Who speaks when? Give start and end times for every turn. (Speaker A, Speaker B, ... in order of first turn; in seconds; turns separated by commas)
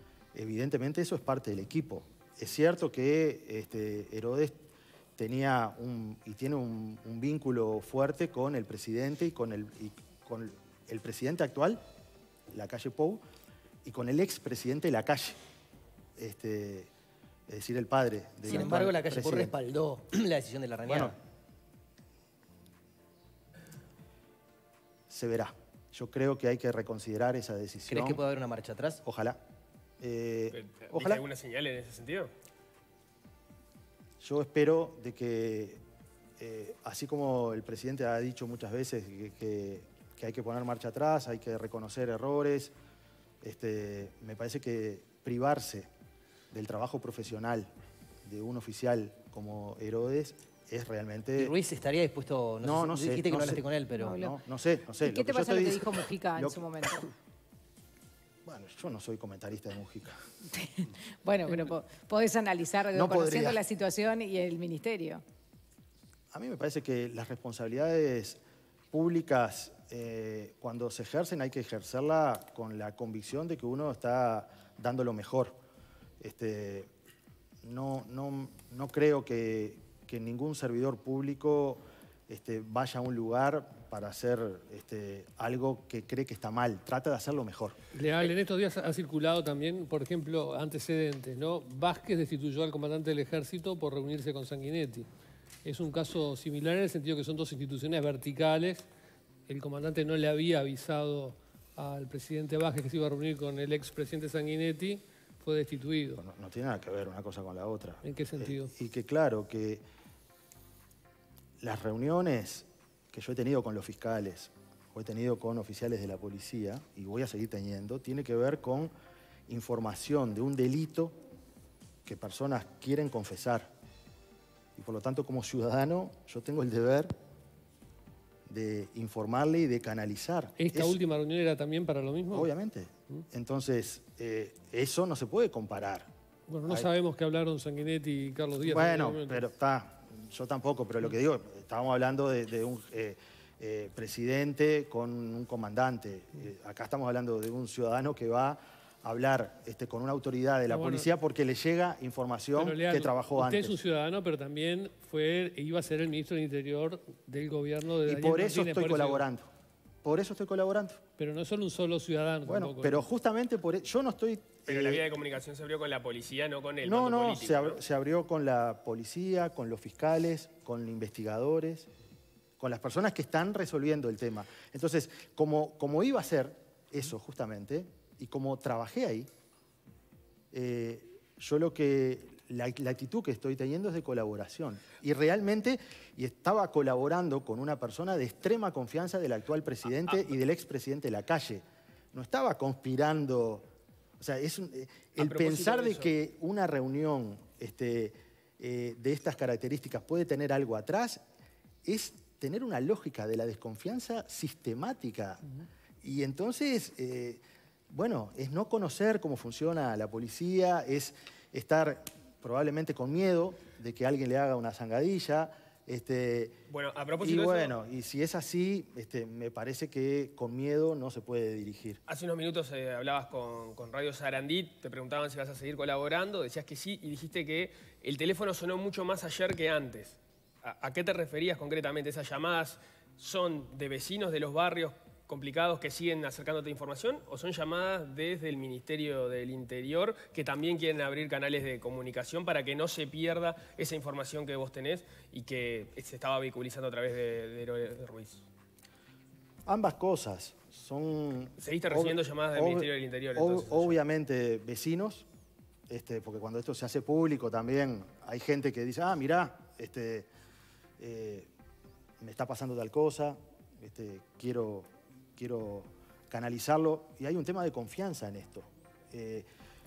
Speaker A: 0.3-4.6, Speaker A: 5.2-11.8, Speaker A: 12.5-13.2, Speaker A: 13.8-15.4, Speaker A: 16.1-16.9, Speaker A: 17.5-19.5, Speaker B: 18.4-21.2, Speaker A: 20.9-21.1, Speaker A: 25.1-28.2, Speaker B: 27.9-29.0, Speaker A: 29.0-29.4, Speaker A: 30.0-31.2, Speaker C: 30.5-32.3, Speaker A: 34.2-35.8, Speaker A: 36.4-42.7, Speaker A: 43.4-45.9, Speaker A: 46.5-47.7, Speaker A: 48.2-51.5, Speaker B: 51.4-54.2, Speaker A: 52.6-56.8, Speaker D: 54.0-54.3, Speaker D: 55.0-57.1, Speaker A: 58.4-60.2, Speaker D: 60.5-65.2, Speaker A: 62.9-63.6, Speaker A: 66.3-68.4, Speaker A: 68.9-75.6, Speaker A: 76.2-76.9, Speaker A: 77.6-87.8, Speaker E: 87.9-95.1, Speaker E: 95.6-98.8, Speaker E: 99.5-106.2, Speaker A: 106.2-109.8, Speaker E: 108.0-108.7, Speaker A: 111.6-118.9, Speaker A: 119.5-121.2, Speaker A: 122.0-123.7, Speaker A: 124.8-127.1, Speaker A: 128.5-131.0, Speaker E: 130.6-132.5, Speaker A: 132.3-136.1, Speaker E: 136.5-139.4, Speaker A: 138.6-153.8, Speaker E: 150.7-151.1, Speaker E: 152.6-159.2, Speaker A: 158.0-159.5, Speaker A: 160.0-161.0, Speaker E: 161.2-163.1, Speaker A: 162.4-165.1, Speaker C: 164.7-167.8, Speaker A: 166.8-171.9, Speaker A: 172.6-179.3, Speaker A: 180.5-193.7, Speaker A: 194.2-201.2, Speaker C: 195.2-196.1, Speaker A: 201.8-205.4, Speaker A: 206.0-216.6, Speaker C: 216.7-217.7, Speaker A: 217.2-222.0, Speaker C: 222.1-248.4, Speaker A: 249.7-255.3, Speaker C: 251.6-253.9, Speaker A: 255.9-260.3, Speaker A: 261.0-261.5, Speaker A: 262.2-269.5